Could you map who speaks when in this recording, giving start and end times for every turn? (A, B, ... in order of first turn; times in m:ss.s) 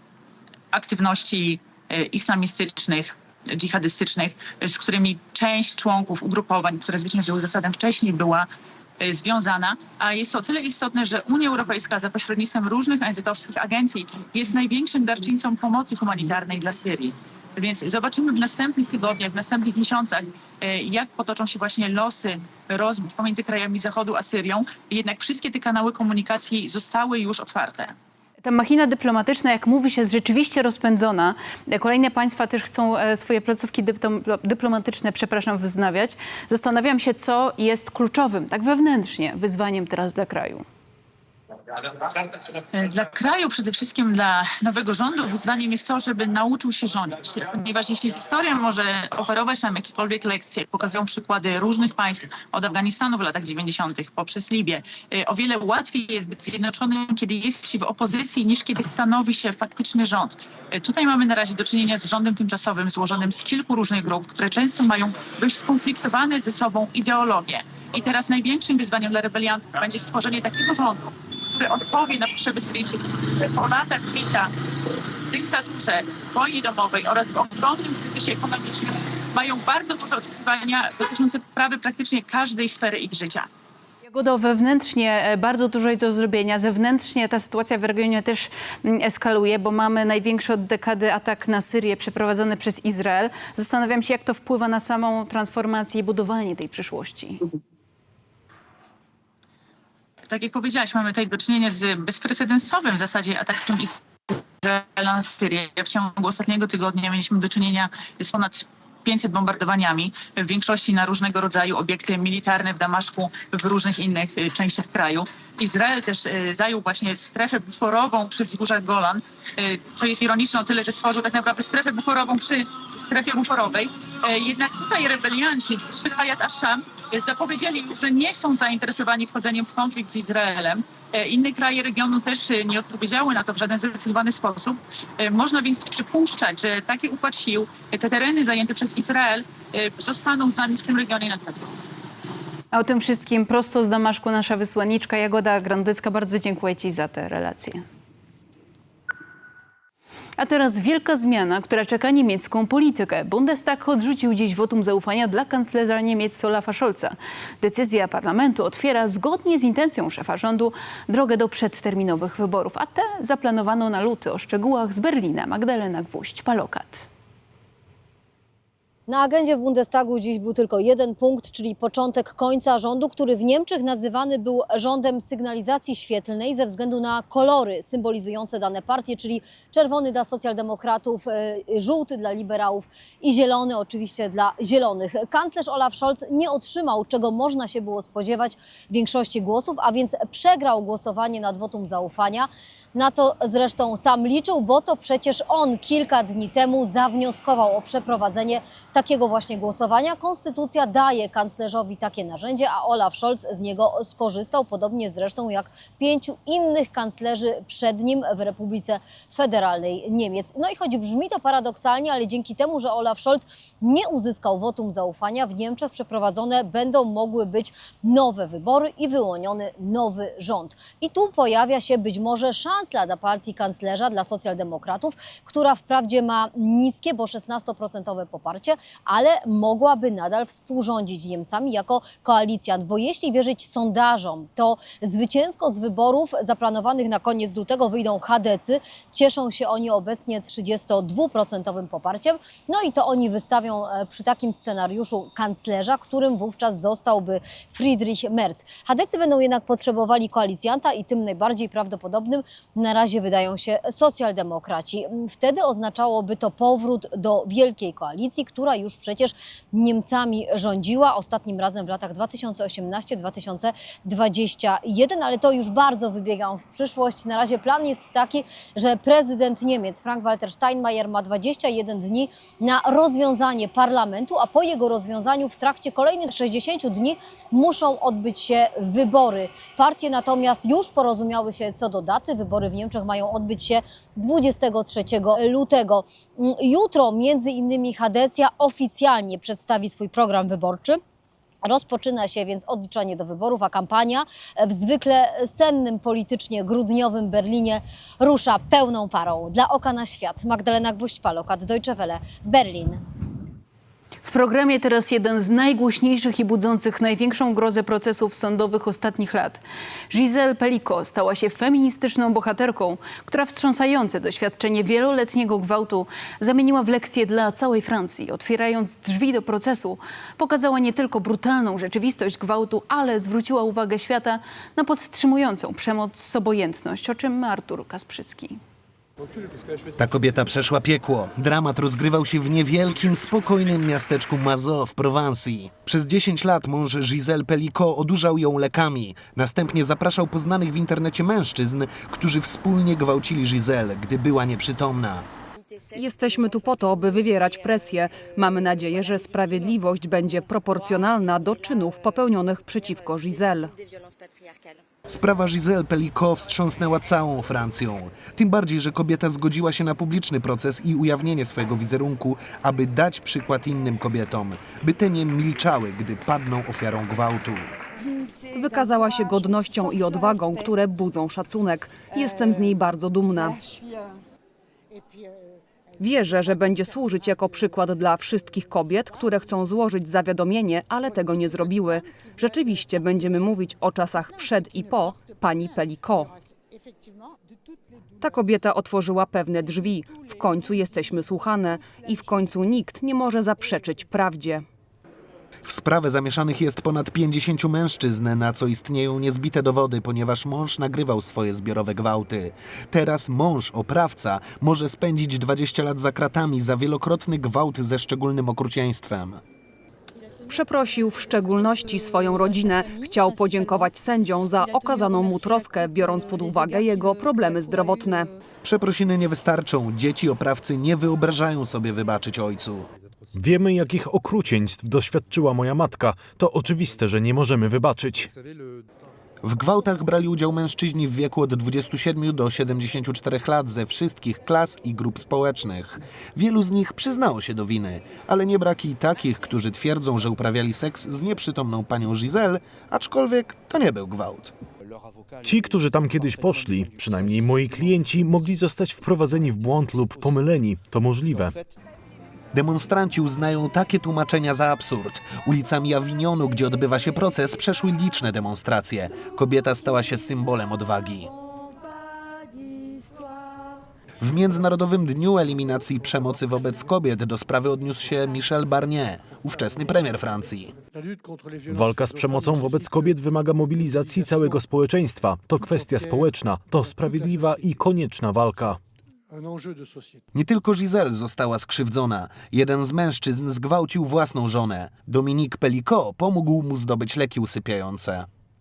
0:00.7-0:08.5 A
0:09.0-0:28.0 A
0:28.4-0:40.6 B
0:42.0-1:14.5 A
1:15.3-1:23.5 A
1:24.1-1:37.5 B
1:40.3-2:21.7 A
2:22.7-2:27.8 B
2:30.4-2:47.1 B
2:49.1-4:51.0 C
4:51.6-5:03.0 C
5:04.2-5:28.6 B
5:30.0-5:45.3 D
5:45.9-5:53.7 E
5:55.1-6:07.7 D
6:08.5-6:13.6 E
6:16.0-6:26.3 E
6:28.2-6:34.6 E
6:35.6-6:49.4 D
6:50.5-6:58.3 E
6:58.6-7:02.9 D
7:03.4-7:08.3 F
7:09.4-7:24.5 D
7:25.4-7:31.6 F
7:32.5-7:41.3 D
7:44.2-7:50.8 D
7:51.7-7:58.8 F
8:00.3-8:08.3 D